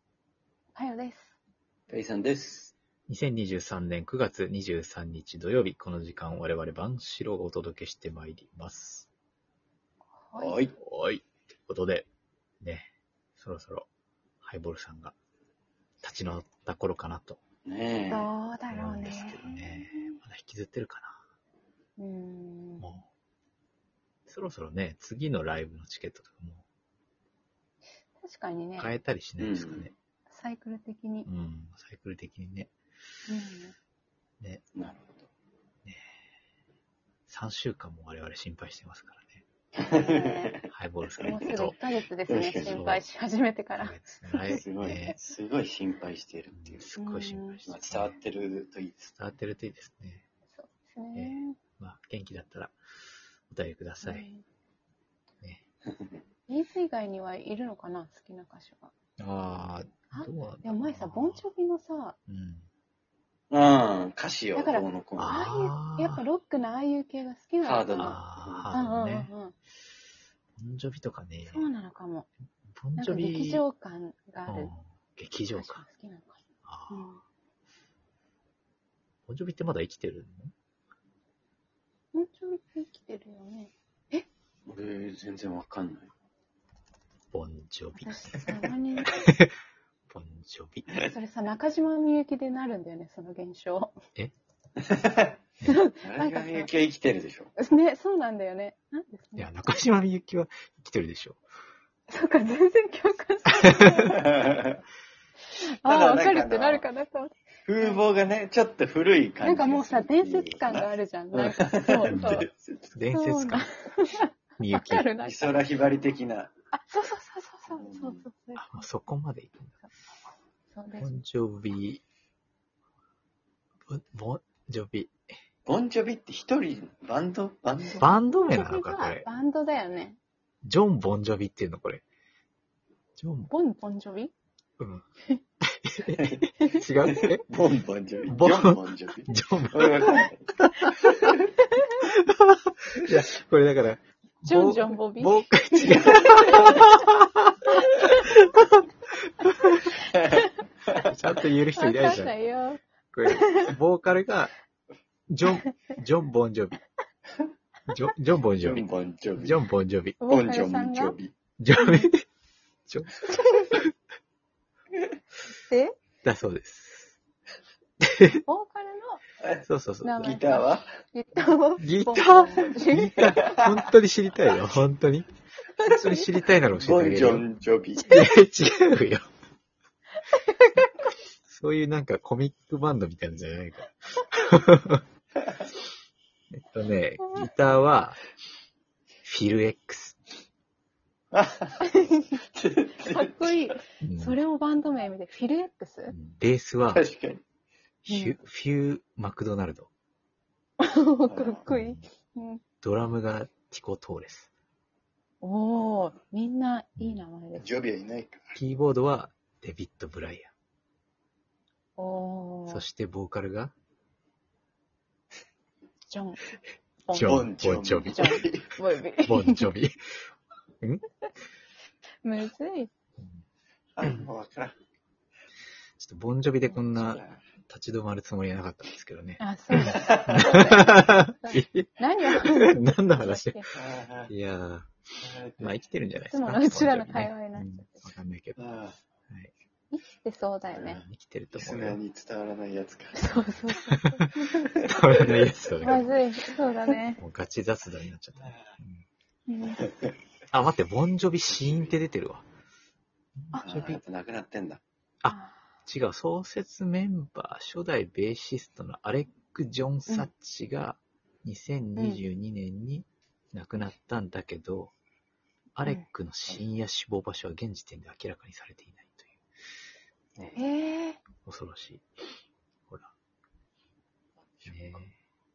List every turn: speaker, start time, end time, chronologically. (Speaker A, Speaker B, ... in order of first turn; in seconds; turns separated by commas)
Speaker A: 0.7-1.4, Speaker B: 1.9-2.7, Speaker C: 3.1-9.1, Speaker A: 10.2-10.6, Speaker B: 10.4-10.7, Speaker C: 10.8-12.1, Speaker C: 12.6-13.9, Speaker C: 14.4-15.1, Speaker C: 16.0-17.4, Speaker B: 17.6-18.3, Speaker A: 18.1-20.1, Speaker C: 18.7-21.2, Speaker A: 22.0-22.8, Speaker C: 22.8-23.1, Speaker C: 24.3-26.6, Speaker A: 28.2-28.9, Speaker C: 28.8-29.9, Speaker B: 29.4-29.9, Speaker A: 30.3-31.3, Speaker C: 31.2-32.7, Speaker A: 33.3-33.7, Speaker B: 34.7-35.3, Speaker C: 37.3-39.4, Speaker B: 39.8-40.6, Speaker A: 39.9-40.6, Speaker C: 40.7-41.8, Speaker A: 41.2-45.0, Speaker B: 42.3-42.9, Speaker C: 42.7-43.0, Speaker C: 43.8-45.1, Speaker B: 44.5-46.8, Speaker C: 46.5-48.1, Speaker A: 47.0-47.6, Speaker B: 47.7-49.1, Speaker C: 49.2-50.2, Speaker A: 50.5-51.5, Speaker C: 51.1-52.8, Speaker C: 53.5-54.3, Speaker A: 54.0-54.4, Speaker B: 55.9-56.2, Speaker A: 56.5-58.9, Speaker C: 59.2-61.4, Speaker A: 60.1-62.2, Speaker C: 62.3-62.7, Speaker B: 63.5-65.4, Speaker A: 64.5-68.2, Speaker C: 65.2-66.2, Speaker B: 67.6-68.8, Speaker C: 68.0-69.3, Speaker A: 68.7-69.5, Speaker C: 70.6-71.7, Speaker A: 71.5-72.3, Speaker C: 72.7-73.6, Speaker A: 73.0-74.7, Speaker C: 74.5-75.8, Speaker A: 75.5-77.2, Speaker C: 76.6-77.1, Speaker C: 79.3-80.5, Speaker A: 82.1-84.2, Speaker B: 84.7-86.1, Speaker C: 87.3-89.5, Speaker A: 88.0-89.1, Speaker C: 90.1-91.0, Speaker A: 91.0-94.0, Speaker B: 94.8-95.4, Speaker A: 95.6-96.7, Speaker B: 96.0-97.5, Speaker A: 97.5-99.5, Speaker C: 99.3-101.4, Speaker A: 102.1-104.3, Speaker B: 104.0-104.8, Speaker A: 105.5-108.0, Speaker B: 105.8-106.8, Speaker B: 107.7-112.9, Speaker A: 109.4-112.5, Speaker C: 112.1-113.7, Speaker A: 113.1-115.7, Speaker C: 114.6-115.1, Speaker B: 115.2-116.5, Speaker A: 116.7-118.8, Speaker B: 117.7-118.2, Speaker C: 118.6-119.7, Speaker A: 120.7-121.1, Speaker C: 121.0-122.0, Speaker C: 123.9-125.1, Speaker B: 125.7-128.1, Speaker C: 128.0-129.3, Speaker A: 128.2-130.2, Speaker C: 130.6-132.0, Speaker C: 133.2-133.5, Speaker A: 133.5-134.3, Speaker C: 134.8-135.0, Speaker C: 135.6-137.4, Speaker B: 136.2-136.5, Speaker A: 136.6-136.8, Speaker B: 137.0-141.3, Speaker C: 138.3-140.2, Speaker C: 142.0-150.0, Speaker A: 144.4-146.9, Speaker B: 150.1-151.1, Speaker C: 150.9-152.3, Speaker A: 151.8-153.7, Speaker C: 153.1-154.5, Speaker C: 155.3-156.8, Speaker C: 157.9-158.8, Speaker B: 158.6-159.6, Speaker C: 159.4-160.2, Speaker A: 160.2-161.2, Speaker B: 160.3-161.3, Speaker C: 161.6-162.2, Speaker A: 161.7-162.1, Speaker C: 162.9-163.9, Speaker A: 165.7-165.9, Speaker C: 166.2-167.2, Speaker C: 168.0-168.4, Speaker A: 168.4-169.2, Speaker B: 169.4-169.7, Speaker C: 169.6-170.3, Speaker A: 170.0-173.8, Speaker B: 170.2-170.9, Speaker C: 171.8-177.4, Speaker B: 173.2-173.6, Speaker A: 175.8-176.3, Speaker B: 176.8-178.2, Speaker C: 178.0-179.3, Speaker C: 181.4-185.0, Speaker C: 186.5-188.2, Speaker C: 189.2-190.2, Speaker B: 191.3-193.7, Speaker A: 191.9-192.3, Speaker A: 193.0-196.1, Speaker C: 194.0-194.4, Speaker C: 196.1-197.0, Speaker B: 196.9-197.4, Speaker C: 198.0-199.9, Speaker A: 198.1-198.4, Speaker A: 200.8-202.6, Speaker B: 201.3-201.6, Speaker C: 201.7-202.0, Speaker C: 202.8-204.5, Speaker A: 205.4-207.7, Speaker B: 207.6-208.6, Speaker C: 208.6-210.5, Speaker A: 212.0-212.8, Speaker C: 212.7-213.7, Speaker A: 216.1-216.4, Speaker A: 217.1-219.7, Speaker C: 217.1-218.5, Speaker B: 217.2-218.7, Speaker C: 219.2-220.0, Speaker A: 222.2-222.9, Speaker B: 224.0-224.8, Speaker C: 226.0-233.6, Speaker B: 226.9-227.4, Speaker A: 229.4-233.8, Speaker B: 229.8-230.5, Speaker B: 233.7-234.3, Speaker C: 234.3-234.9, Speaker B: 235.2-235.8, Speaker C: 235.6-238.7, Speaker A: 236.3-238.1, Speaker B: 238.6-238.9, Speaker A: 239.9-241.0, Speaker C: 240.8-242.0, Speaker B: 241.5-243.5, Speaker A: 243.1-244.8, Speaker C: 243.7-246.2, Speaker B: 244.9-245.7, Speaker A: 245.8-247.2, Speaker C: 247.2-249.0, Speaker A: 249.5-249.9, Speaker B: 249.8-250.1, Speaker C: 250.5-252.4, Speaker B: 251.6-251.9, Speaker C: 253.4-254.0, Speaker B: 253.6-254.8, Speaker C: 255.2-264.9, Speaker A: 255.2-255.6, Speaker A: 262.0-262.2, Speaker C: 265.8-269.4, Speaker A: 270.6-271.2, Speaker C: 271.4-272.0, Speaker B: 274.4-275.0, Speaker C: 274.7-275.1